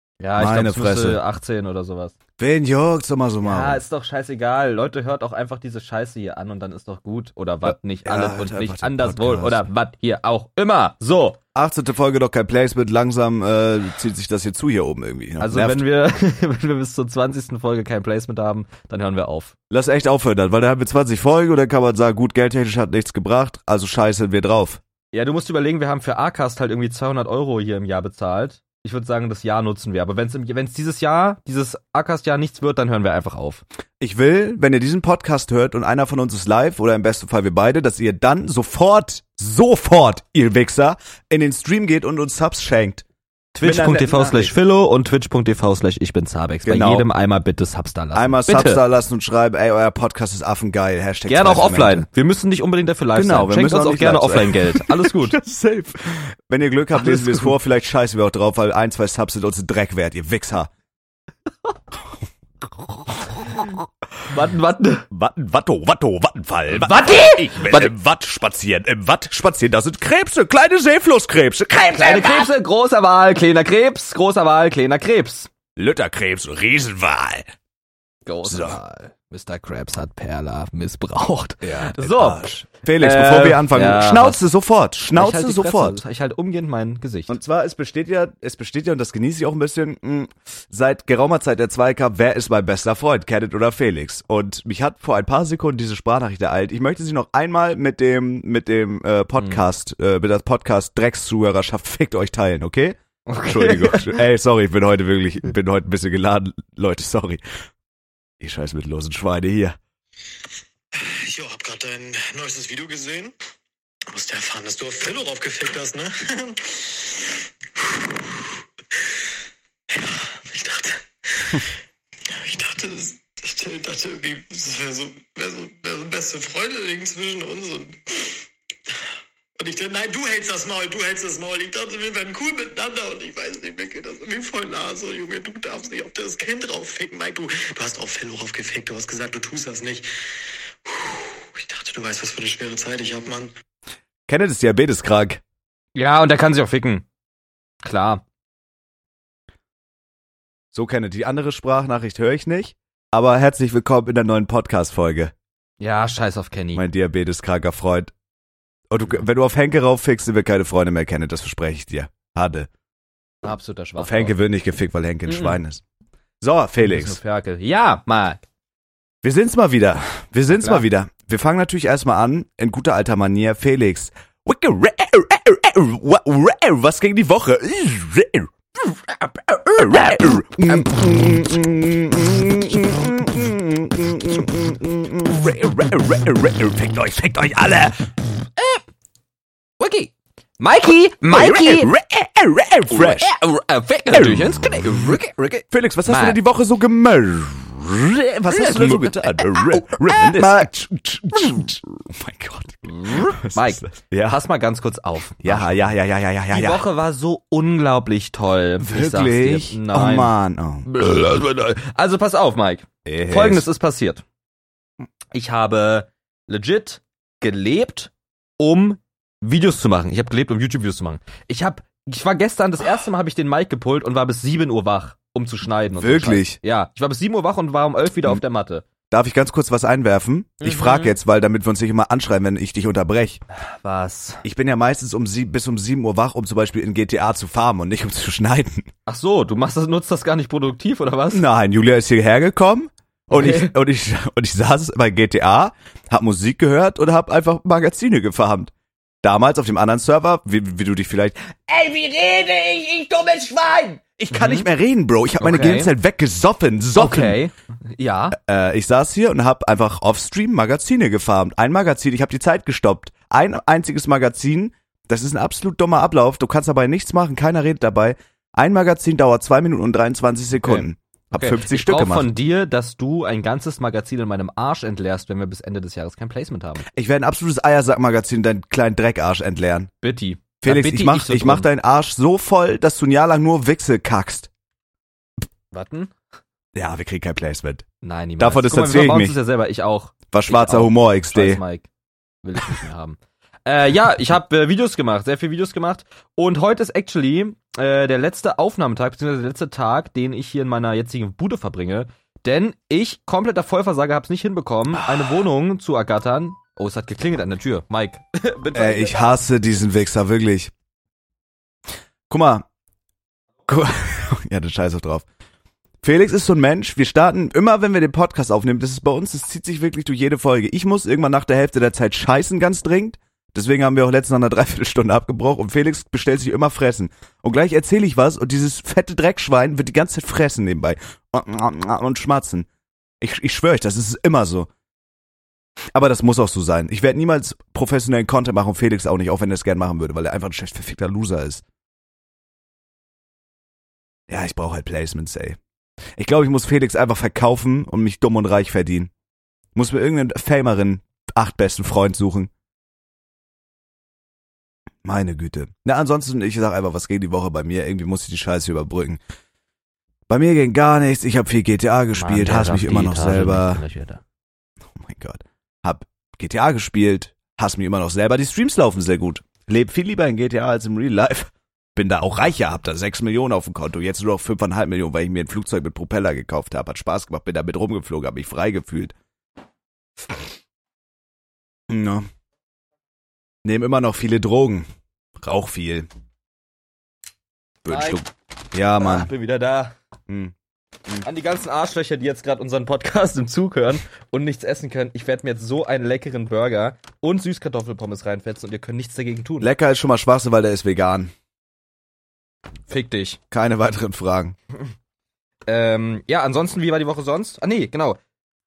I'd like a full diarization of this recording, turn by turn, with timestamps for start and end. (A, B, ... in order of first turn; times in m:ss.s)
0:00.2-0:02.1 A
0:00.4-0:01.2 B
0:02.4-0:03.8 B
0:03.4-0:11.4 A
0:07.6-0:09.6 B
0:11.5-0:15.8 B
0:15.4-0:19.5 A
0:19.7-0:24.8 B
0:25.1-0:33.6 A
0:34.0-0:43.0 B
0:43.5-0:48.8 A
0:43.6-0:44.5 B
0:46.6-0:47.1 B
0:48.1-0:52.1 B
0:51.3-0:55.4 A
0:53.1-1:00.7 B
0:57.0-0:57.5 A
1:04.3-1:05.1 A
1:05.1-1:12.5 B
1:06.7-1:07.9 A
1:12.0-1:15.5 A
1:15.8-1:17.5 B
1:18.2-1:22.4 A
1:18.4-1:18.8 B
1:21.6-1:26.0 B
1:23.0-1:24.5 A
1:25.1-1:27.4 A
1:27.3-1:47.4 B
1:39.4-1:39.6 A
1:43.3-1:44.2 A
1:48.4-1:49.8 B
1:50.9-1:53.3 C
1:54.1-1:59.2 C
1:59.9-2:01.7 C
2:02.3-2:23.5 C
2:24.3-2:25.4 B
2:25.9-2:27.1 A
2:27.8-2:28.2 A
2:30.7-2:35.3 B
2:35.8-2:36.8 A
2:36.7-2:38.1 B
2:38.9-2:42.7 B
2:43.4-2:44.3 A
2:44.0-2:45.8 B
2:45.2-2:45.6 A
2:46.4-2:47.2 B
2:46.8-2:48.4 A
2:49.2-2:58.5 B
2:50.5-2:50.8 A
2:58.9-3:00.9 A
2:59.8-3:08.1 B
3:09.8-3:11.9 A
3:11.3-3:13.3 B
3:12.9-3:16.4 A
3:14.1-3:15.1 B
3:15.7-3:24.4 B
3:18.5-3:20.7 A
3:22.8-3:25.9 A
3:25.4-3:26.8 B
3:26.5-3:30.3 A
3:28.8-3:30.9 B
3:30.8-3:34.2 A
3:33.0-3:33.6 B
3:35.3-3:48.8 A
3:46.0-3:46.6 B
3:49.1-3:53.4 B
3:50.6-3:51.1 A
3:53.5-3:54.4 A
3:54.4-3:58.9 B
3:59.1-4:01.4 A
4:01.3-4:08.7 B
4:03.3-4:03.7 A
4:09.2-4:17.4 B
4:11.7-4:14.7 A
4:15.4-4:15.9 A
4:16.9-4:18.4 A
4:18.3-4:32.3 B
4:30.6-4:36.8 A
4:36.9-4:39.9 B
4:40.0-4:41.7 A
4:40.6-4:44.5 B
4:45.7-4:46.1 A
4:46.7-4:47.8 B
4:48.0-4:51.9 A
4:48.4-4:49.4 B
4:50.3-4:51.6 B
4:52.4-5:09.3 A
5:04.9-5:05.4 B
5:08.7-5:10.7 B
5:12.3-5:12.6 B
5:13.7-5:15.2 B
5:16.0-5:32.7 B
5:33.2-5:34.7 B
5:35.9-5:41.6 B
5:44.3-5:45.6 B
5:46.2-5:49.1 B
5:49.7-5:52.5 B
5:55.0-5:59.2 B
6:00.3-6:03.8 B
6:02.2-6:04.2 A
6:04.9-6:19.1 B
6:21.9-6:22.3 B
6:23.6-6:24.9 B
6:25.4-6:26.1 B
6:27.8-6:29.3 B
6:27.9-6:28.2 A
6:29.0-6:30.0 A
6:30.3-6:30.5 B
6:31.2-6:39.7 A
6:39.6-6:41.3 B
6:42.9-6:43.4 A
6:43.5-6:44.6 B
6:45.7-6:48.2 A